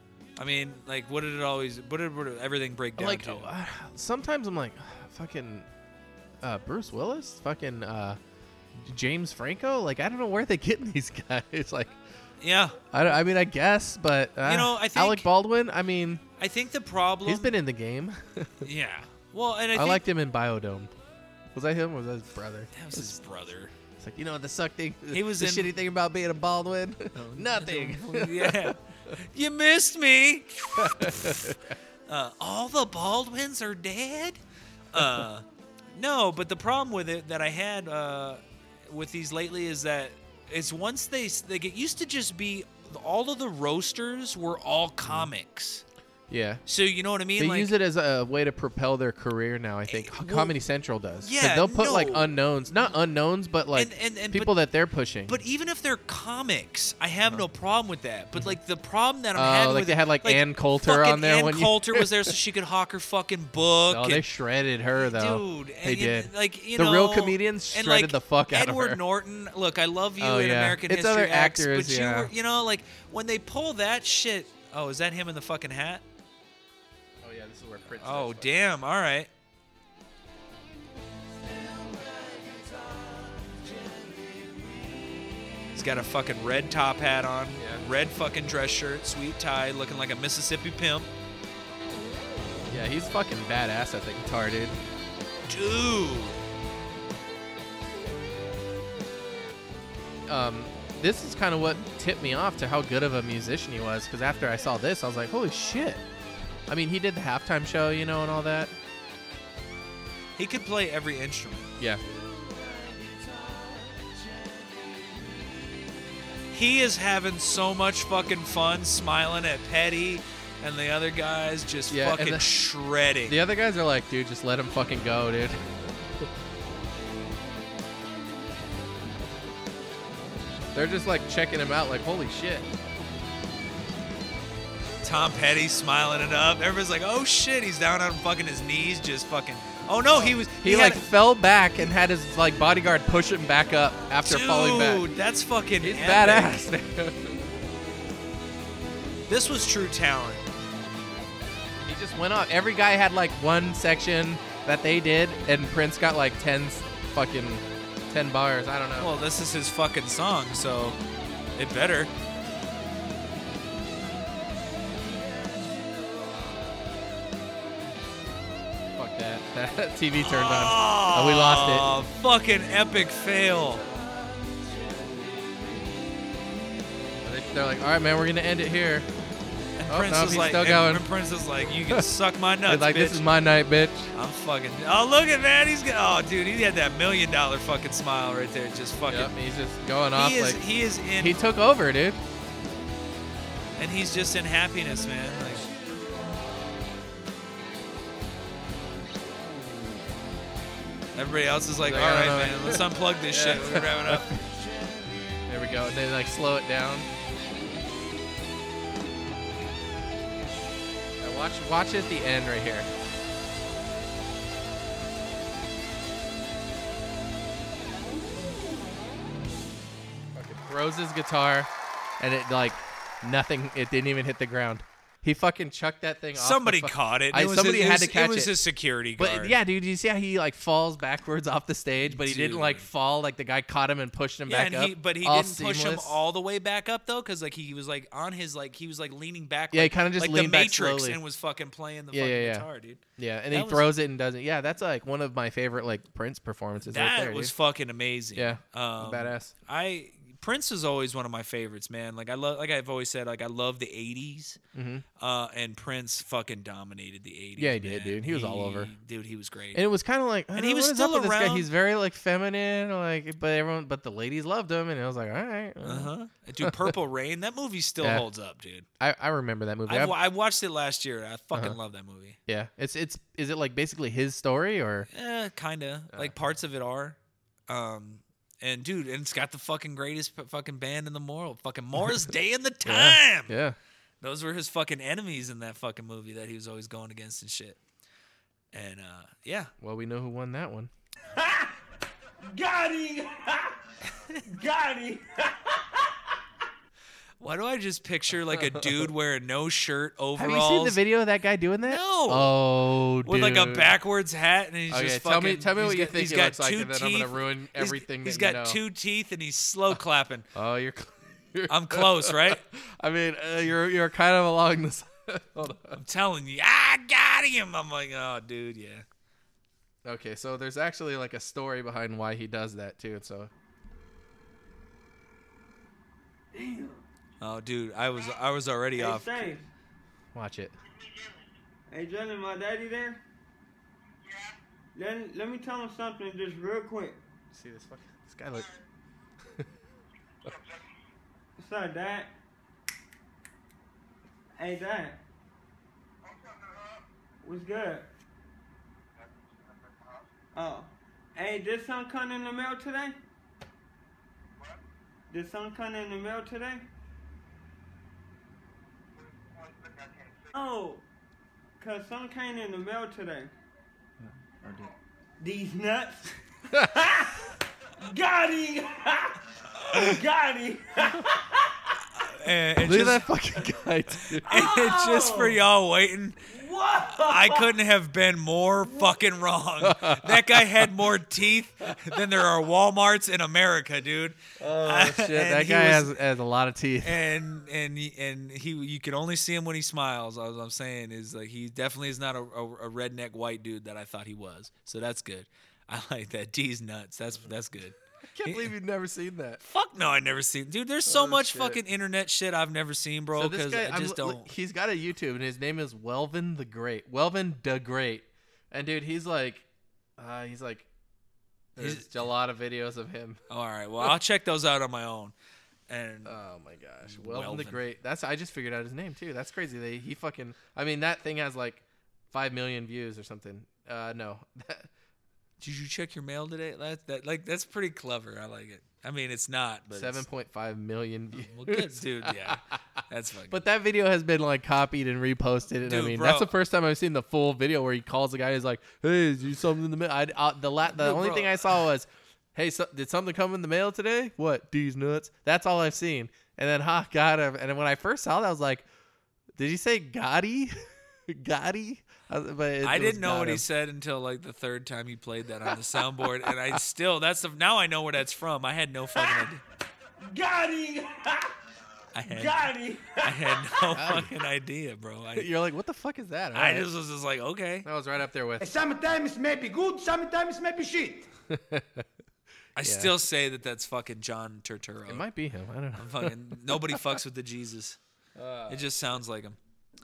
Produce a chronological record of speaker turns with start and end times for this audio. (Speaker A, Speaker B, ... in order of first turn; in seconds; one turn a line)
Speaker A: 0.4-3.5
Speaker B: 3.0-5.7
Speaker B: 6.4-8.2
Speaker B: 8.7-12.0
Speaker A: 12.4-12.8
Speaker B: 12.9-16.2
Speaker A: 14.4-15.3
Speaker A: 16.4-17.5
Speaker B: 17.2-18.7
Speaker A: 18.6-20.0
Speaker B: 19.7-20.9
Speaker B: 21.5-23.1
Speaker A: 22.7-23.7
Speaker B: 24.0-29.1
Speaker A: 25.1-25.7
Speaker A: 27.1-34.4
Speaker B: 30.8-31.7
Speaker A: 34.9-45.8
Speaker B: 35.0-35.2
Speaker B: 45.0-45.3
Speaker B: 46.3-46.6
Speaker A: 46.7-47.7
Speaker B: 47.4-55.4
Speaker A: 49.9-50.5
Speaker A: 51.2-52.3
Speaker A: 53.7-54.5
Speaker A: 55.3-64.2
Speaker B: 59.3-62.3
Speaker B: 63.9-69.0
Speaker A: 65.0-76.0
Speaker B: 70.2-72.3
Speaker B: 77.2-78.5
Speaker A: 78.0-79.3
Speaker A: 85.7-91.1
Speaker B: 87.6-87.8
Speaker B: 92.7-94.8
Speaker A: 95.5-96.4
Speaker B: 100.3-106.0
Speaker B: 106.7-108.7
Speaker A: 110.4-111.7
Speaker A: 116.5-123.4
Speaker B: 121.9-122.5
Speaker B: 123.3-126.2
Speaker B: 130.7-132.7
Speaker A: 135.0-141.1
Speaker B: 140.1-145.1
Speaker A: 144.2-146.6
Speaker B: 145.8-147.5
Speaker A: 149.3-150.5
Speaker B: 151.8-159.1
Speaker A: 159.0-161.0
Speaker A: 161.6-162.1
Speaker B: 168.9-171.9
Speaker A: 170.2-173.8
Speaker B: 177.2-179.1
Speaker A: 179.8-183.3
Speaker B: 179.9-181.0
Speaker B: 182.7-184.1
Speaker A: 184.1-189.3
Speaker B: 189.1-190.6
Speaker A: 190.1-191.4
Speaker B: 191.2-192.2
Speaker A: 193.8-195.7
Speaker A: 201.1-204.3
Speaker B: 201.8-204.4
Speaker B: 205.5-207.1
Speaker B: 211.2-212.9
Speaker B: 220.3-228.5
Speaker A: 226.3-229.6
Speaker B: 229.2-236.2
Speaker A: 232.1-232.8
Speaker A: 234.5-243.9
Speaker B: 239.7-241.2
Speaker B: 242.1-247.5
Speaker A: 246.8-254.6
Speaker B: 248.3-249.5
Speaker B: 254.7-255.0
Speaker A: 255.2-259.8
Speaker B: 257.6-258.9
Speaker B: 259.7-266.9
Speaker A: 260.5-261.7
Speaker A: 265.8-268.9
Speaker B: 268.0-268.3
Speaker B: 269.0-270.1
Speaker A: 269.9-272.4
Speaker B: 272.5-275.1
Speaker A: 275.1-277.2
Speaker A: 277.7-283.6
Speaker B: 282.8-283.8
Speaker A: 284.2-287.8
Speaker A: 288.7-289.7
Speaker B: 289.8-290.9
Speaker C: 291.3-291.8
Speaker C: 292.4-293.8
Speaker A: 294.1-294.4
Speaker C: 294.4-296.4
Speaker A: 297.4-301.0
Speaker B: 298.5-299.0
Speaker B: 300.4-303.9
Speaker A: 301.9-302.6
Speaker A: 303.2-310.5
Speaker B: 304.9-308.8
Speaker B: 310.5-316.0
Speaker A: 311.7-312.6
Speaker A: 315.9-319.0
Speaker B: 320.0-323.5
Speaker C: 326.5-327.0
Speaker A: 327.4-329.5
Speaker C: 328.9-329.7
Speaker B: 330.3-330.7
Speaker C: 331.9-333.2
Speaker C: 334.9-337.2
Speaker B: 337.5-338.7
Speaker C: 341.6-342.3
Speaker C: 344.6-345.2
Speaker C: 347.4-348.1
Speaker C: 350.5-353.2
Speaker C: 355.3-356.8
Speaker C: 360.5-361.0
Speaker C: 361.8-363.5
Speaker C: 364.6-372.0
Speaker A: 372.2-373.3
Speaker B: 372.8-374.5
Speaker A: 374.4-376.5
Speaker C: 374.5-375.6
Speaker C: 376.5-377.7
Speaker A: 377.1-386.1
Speaker B: 379.8-380.9
Speaker B: 384.6-387.2
Speaker A: 387.0-398.7
Speaker B: 398.2-399.6
Speaker A: 399.6-404.5
Speaker B: 401.1-401.8
Speaker B: 403.3-409.6
Speaker B: 410.2-410.9
Speaker B: 411.8-413.4
Speaker A: 411.8-412.1
Speaker A: 413.5-415.3
Speaker A: 415.9-416.4
Speaker B: 416.2-424.9
Speaker A: 417.0-417.8
Speaker A: 425.6-430.2
Speaker B: 429.9-432.8
Speaker A: 431.4-433.6
Speaker B: 433.5-448.9
Speaker A: 435.8-436.5
Speaker A: 440.9-441.8
Speaker B: 449.6-453.6
Speaker A: 452.8-459.6
Speaker B: 456.2-456.7
Speaker C: 459.2-459.5
Speaker C: 460.2-461.6
Speaker A: 462.1-465.5
Speaker C: 462.3-464.0
Speaker B: 463.9-464.3
Speaker B: 465.3-466.9
Speaker A: 466.5-467.9
Speaker B: 467.8-468.7
Speaker D: 468.6-471.3
Speaker B: 471.5-472.1
Speaker A: 472.8-475.2
Speaker B: 472.8-473.1
Speaker B: 475.1-477.2
Speaker A: 475.9-478.0
Speaker B: 478.4-478.9
Speaker A: 478.7-479.6